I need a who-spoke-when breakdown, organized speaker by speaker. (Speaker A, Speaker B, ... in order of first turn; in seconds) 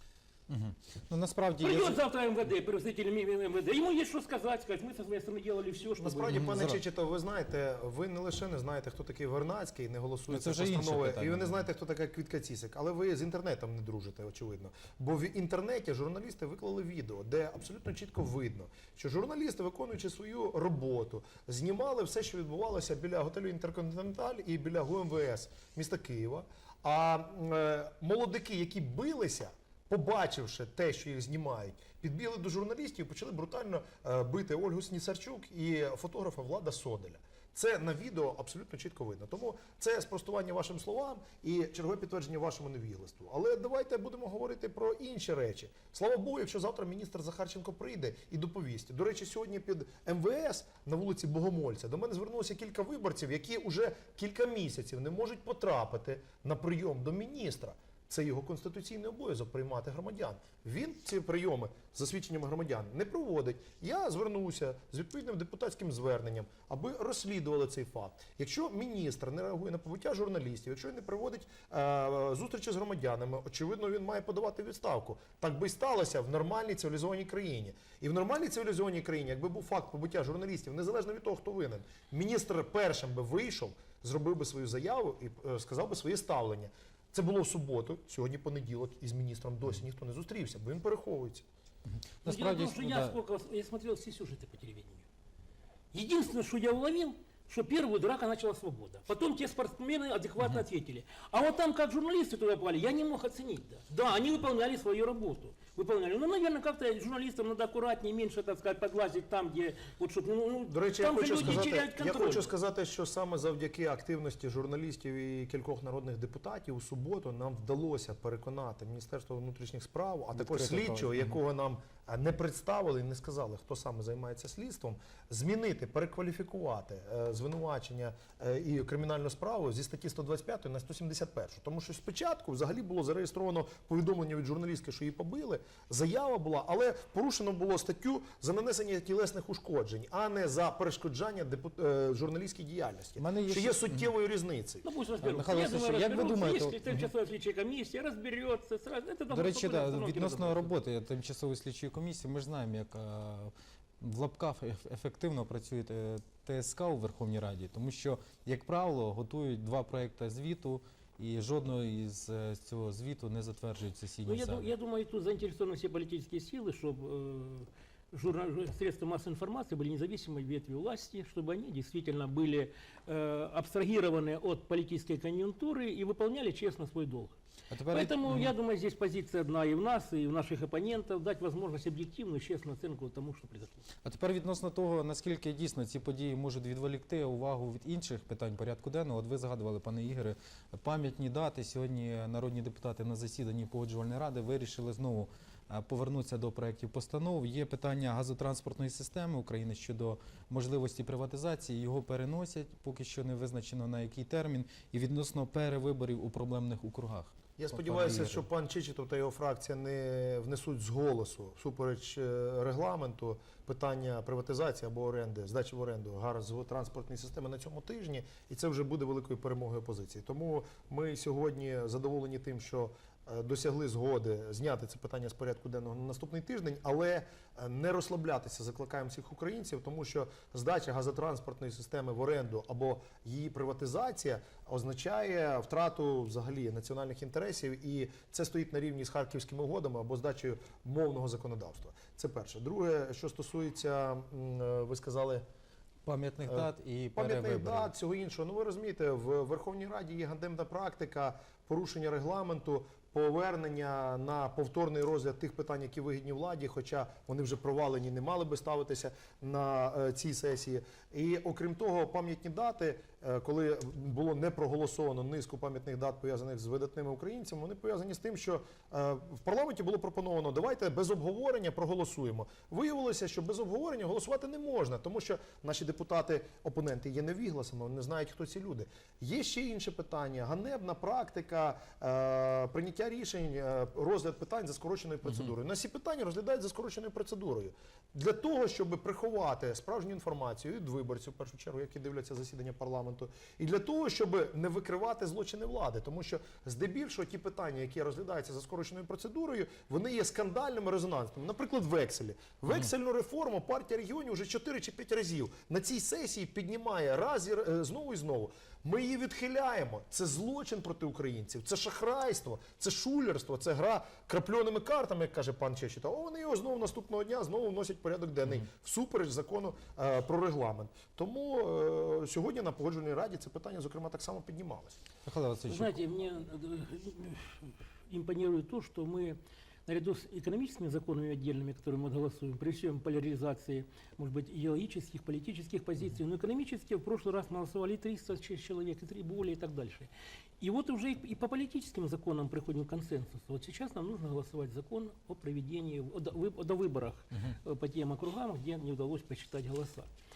Speaker A: 0.5-2.0, 6.3-6.8, 10.3-11.6, 91.9-93.2, 120.3-121.3, 143.2-144.1, 145.2-147.1, 149.3-164.7, 177.7-178.5, 184.0-208.4, 246.0-247.9, 325.2-326.0
Speaker B: 1.6-6.5, 92.2-95.0, 95.9-112.5, 144.8-150.8, 164.2-177.3, 177.9-183.8, 325.7-350.1
Speaker C: 6.0-91.4, 110.7-144.8, 207.6-245.4, 246.4-325.0